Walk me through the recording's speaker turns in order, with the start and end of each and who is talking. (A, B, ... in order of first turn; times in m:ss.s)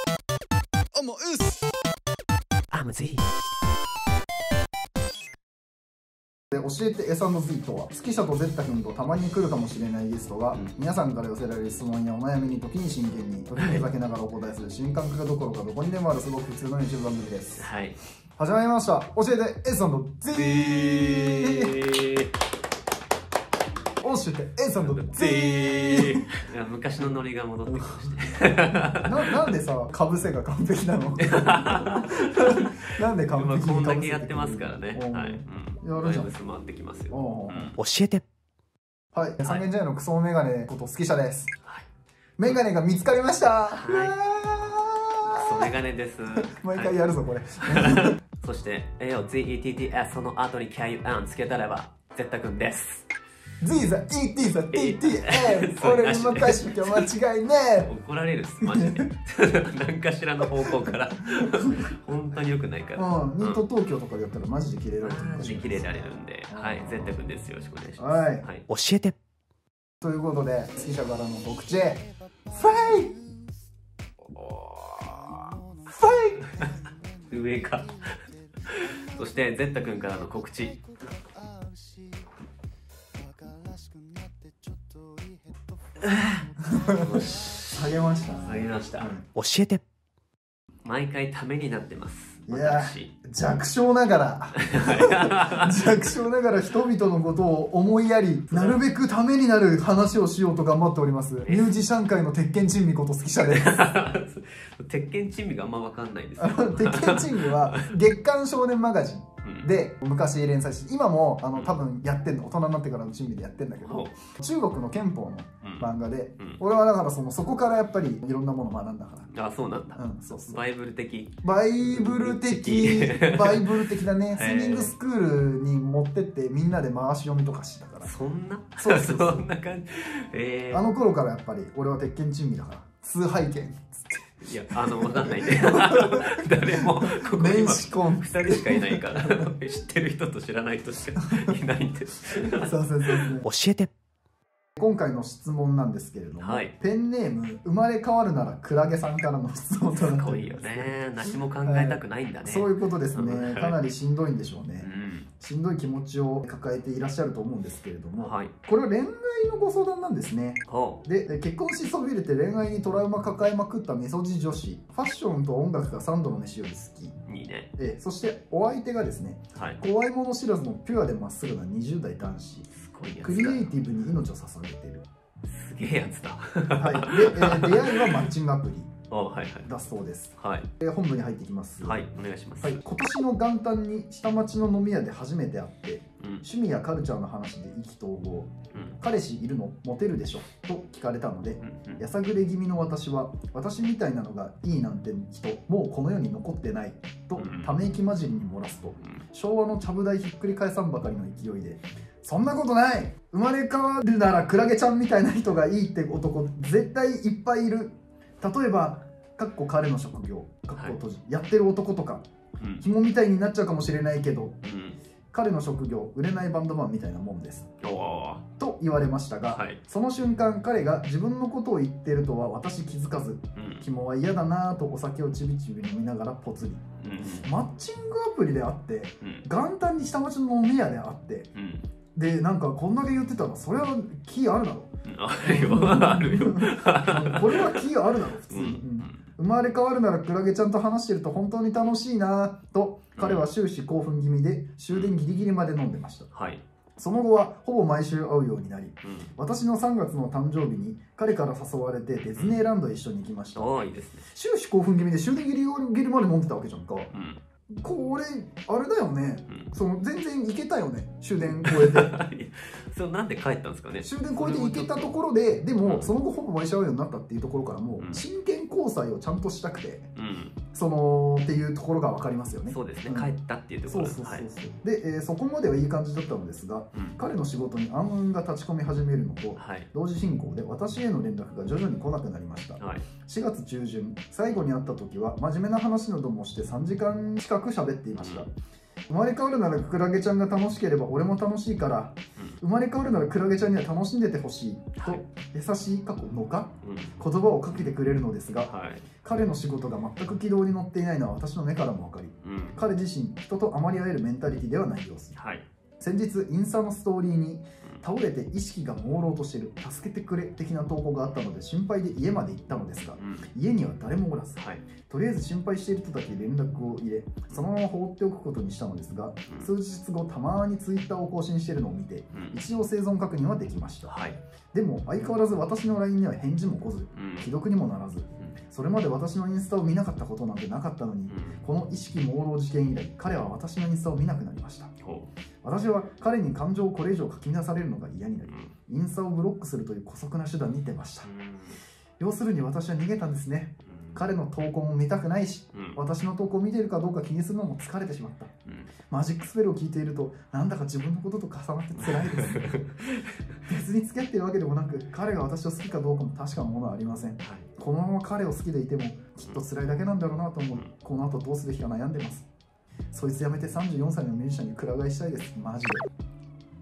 0:00.9-0:01.5 A
0:02.7-0:03.2 B
0:06.5-0:17.7 A
0:13.6-0:13.8 B
0:17.6-0:18.0 B
0:18.4-0:21.7 A
0:20.4-0:22.3 B
0:24.0-0:26.2 A
0:24.8-0:29.3 B
0:27.6-0:36.3 A
0:31.4-0:37.8 B
0:37.1-0:37.7 A
0:37.8-0:38.2 C
0:39.1-0:41.5 A
0:42.4-0:45.7 A
0:43.7-0:44.2 B
0:45.4-0:47.0 B
0:46.4-0:48.2 A
0:47.6-0:53.0 B
0:53.6-0:57.9 A
0:54.7-0:57.1 B
0:57.8-1:03.6 B
0:58.6-0:59.1 A
1:01.3-1:01.9 A
1:03.0-1:07.2 A
1:05.0-1:08.7 B
1:08.0-1:08.4 A
1:08.7-1:09.1 C
1:10.0-1:13.1 A
1:14.3-1:15.6 B
1:15.8-1:16.6 A
1:17.3-1:20.8 B
1:26.0-1:29.1 B
1:26.7-1:29.2 A
1:29.4-1:29.8 C
1:30.8-1:33.1 B
1:32.5-1:44.0 A
1:34.7-1:35.8 B
1:38.5-1:38.8 B
1:41.4-1:41.7 B
1:43.5-1:47.9 B
1:46.4-1:59.3 A
1:53.8-1:54.1 B
1:59.3-2:04.9 B
2:00.0-2:00.6 A
2:01.4-2:08.1 A
2:08.0-2:10.9 B
2:08.8-2:09.4 A
2:10.7-2:19.5 A
2:14.4-2:23.2 B
2:22.5-2:23.4 A
2:23.4-2:23.9 C
2:24.8-2:30.9 A
2:26.4-2:26.7 B
2:29.9-2:33.8 B
2:31.6-2:34.9 A
2:34.8-2:35.3 B
2:35.4-2:47.1 A
2:38.2-2:38.5 B
2:40.7-2:41.0 B
2:47.3-2:47.7 B
2:47.8-2:52.7 A
2:49.5-2:49.8 B
2:52.8-2:53.7 B
2:53.2-2:55.0 A
2:55.5-2:58.3 B
2:56.8-2:58.9 A
2:59.1-2:59.7 B
2:59.6-3:02.0 A
3:00.4-3:00.6 B
3:01.8-3:02.8 B
3:02.6-3:32.2 A
3:11.6-3:12.0 B
3:17.4-3:17.7 B
3:32.8-3:34.6 A
3:34.6-3:35.0 B
3:35.3-3:37.7 A
3:37.8-3:38.4 B
3:38.6-3:46.8 A
3:39.5-3:39.8 B
3:43.6-3:43.8 B
3:47.0-3:47.5 B
3:47.4-3:51.5 A
3:51.5-3:51.8 B
3:52.1-3:54.9 A
3:55.1-3:57.8 B
3:55.4-4:06.3 A
3:58.5-3:59.2 B
4:03.2-4:03.4 B
4:06.3-4:06.6 B
4:07.0-4:13.7 A
4:09.0-4:09.3 B
4:12.3-4:12.6 B
4:13.5-4:14.3 B
4:14.3-4:17.1 A
4:17.1-4:17.4 B
4:17.7-4:22.1 A
4:21.5-4:25.1 B
4:24.0-4:30.1 A
4:25.8-4:26.1 B
4:30.2-4:30.6 B
4:30.7-4:33.3 A
4:32.7-4:34.5 B
4:33.8-4:48.5 A
4:39.6-4:39.9 B
4:42.8-4:43.0 B
4:48.1-4:48.4 B
4:49.1-4:58.7 A
4:55.0-4:55.2 B
4:56.8-4:57.1 B
4:58.6-4:59.0 B
4:59.2-5:05.4 A
5:02.4-5:02.8 B
5:05.4-5:05.6 B
5:06.0-5:34.9 A
5:13.2-5:13.4 B
5:22.3-5:22.6 B
5:24.1-5:24.4 B
5:27.1-5:27.5 B
5:31.3-5:31.6 B
5:35.0-5:35.3 B
5:35.6-5:41.3 A
5:38.4-5:38.7 B
5:41.2-5:41.8 B
5:42.2-5:48.5 A
5:43.9-5:44.2 B
5:45.7-5:46.0 B
5:49.1-5:52.8 A
5:52.0-5:53.3 B
5:53.7-6:02.4 A
6:03.1-6:06.0 A